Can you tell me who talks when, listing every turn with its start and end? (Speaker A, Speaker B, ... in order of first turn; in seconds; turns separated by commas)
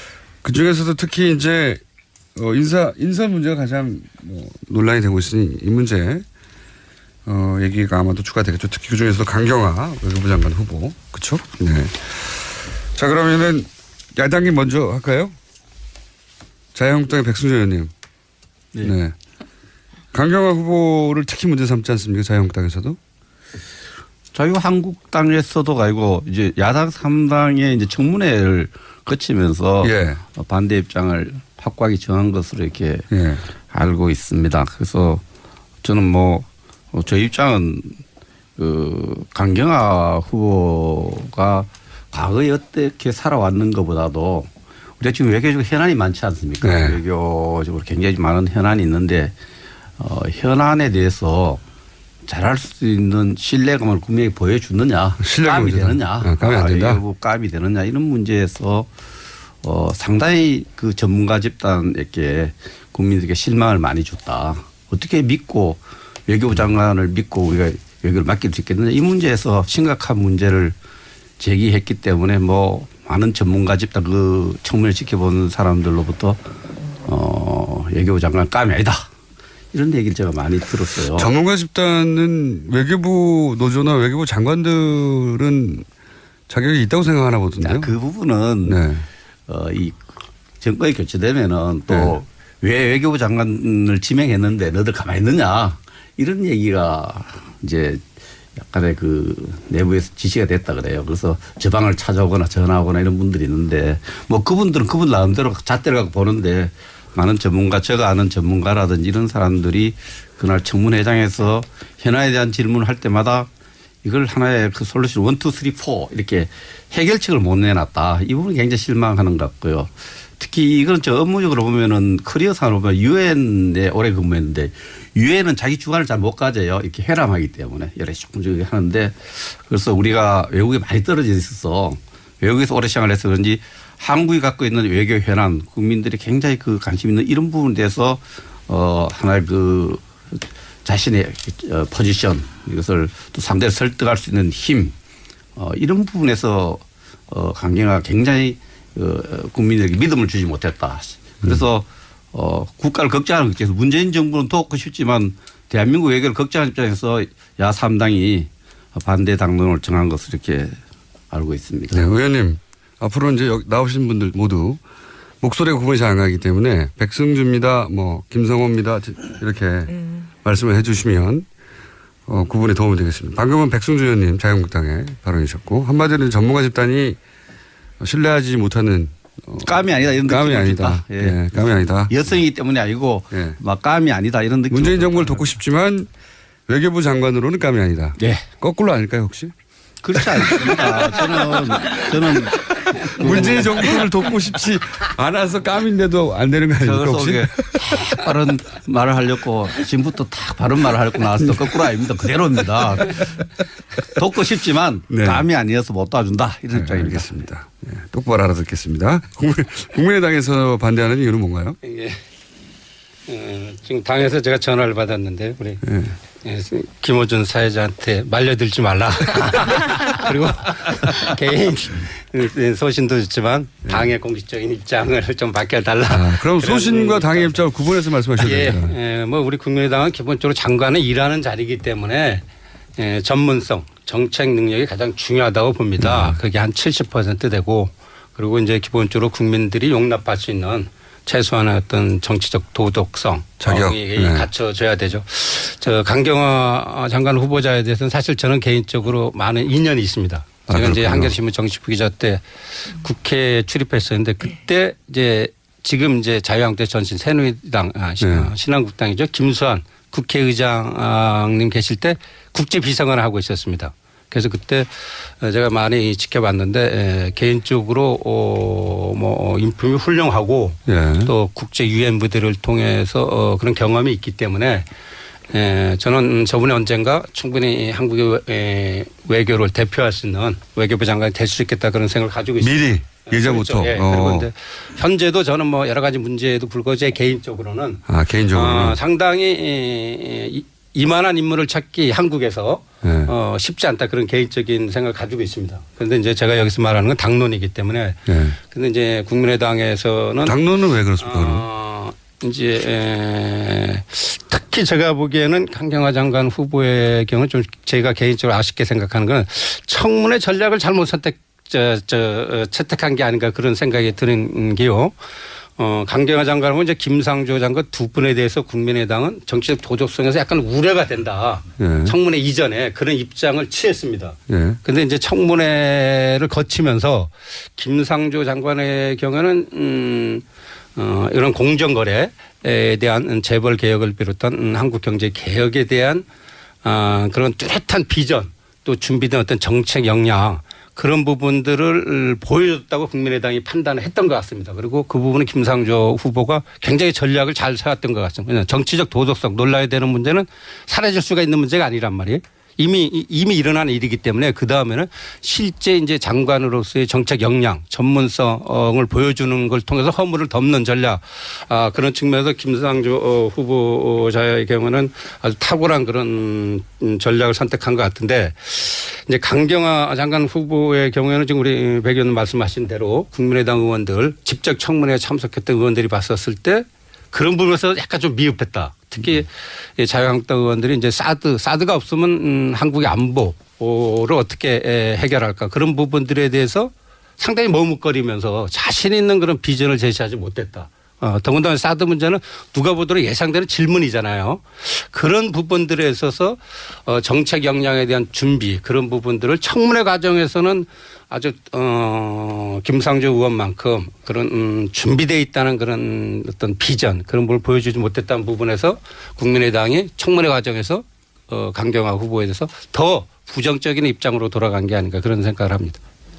Speaker A: 0.4-1.8, Speaker A: 2.3-6.2, Speaker A: 7.2-15.3, Speaker A: 16.8-17.9, Speaker A: 18.8-19.1, Speaker A: 20.1-23.0, Speaker B: 24.3-33.0, Speaker A: 29.8-30.2, Speaker A: 33.1-33.4, Speaker B: 33.7-35.2, Speaker B: 35.8-38.0, Speaker B: 38.6-49.3, Speaker A: 46.6-47.0, Speaker B: 50.0-51.6, Speaker B: 52.3-58.9, Speaker A: 55.2-57.0, Speaker B: 59.6-70.8, Speaker B: 71.4-76.4, Speaker B: 77.1-79.1, Speaker B: 79.7-81.3, Speaker A: 81.1-85.9, Speaker A: 86.5-87.9, Speaker B: 87.6-88.8, Speaker A: 88.7-89.1, Speaker B: 89.5-98.0, Speaker A: 91.9-92.2, Speaker B: 98.6-113.5, Speaker B: 114.0-140.0, Speaker B: 140.8-144.9, Speaker B: 145.6-160.8, Speaker B: 161.3-162.1, Speaker A: 161.9-164.8, Speaker A: 165.4-169.9, Speaker A: 170.4-171.4, Speaker A: 172.3-177.2, Speaker A: 178.0-182.2, Speaker B: 179.6-181.4, Speaker B: 182.1-185.5, Speaker A: 183.3-183.6, Speaker A: 184.7-186.1, Speaker A: 186.7-189.5, Speaker B: 188.2-188.5, Speaker B: 190.0-194.0, Speaker A: 193.2-197.9, Speaker B: 196.8-203.4, Speaker B: 204.1-207.3, Speaker A: 205.1-205.4, Speaker A: 206.7-211.8, Speaker C: 211.8-212.2, Speaker C: 213.3-215.8, Speaker A: 215.8-216.1, Speaker C: 216.4-227.7, Speaker A: 226.1-228.9, Speaker C: 228.3-232.4, Speaker C: 233.0-274.9, Speaker A: 236.0-236.4, Speaker A: 243.6-244.5, Speaker A: 250.7-251.3, Speaker A: 258.2-258.5, Speaker A: 270.9-271.3, Speaker C: 275.5-315.1, Speaker A: 282.6-284.5, Speaker A: 288.1-289.0, Speaker A: 293.0-293.3, Speaker A: 298.3-298.6, Speaker A: 300.4-301.6, Speaker C: 315.8-330.4, Speaker A: 321.8-322.1, Speaker A: 324.5-324.8, Speaker C: 330.9-336.2, Speaker C: 336.8-416.0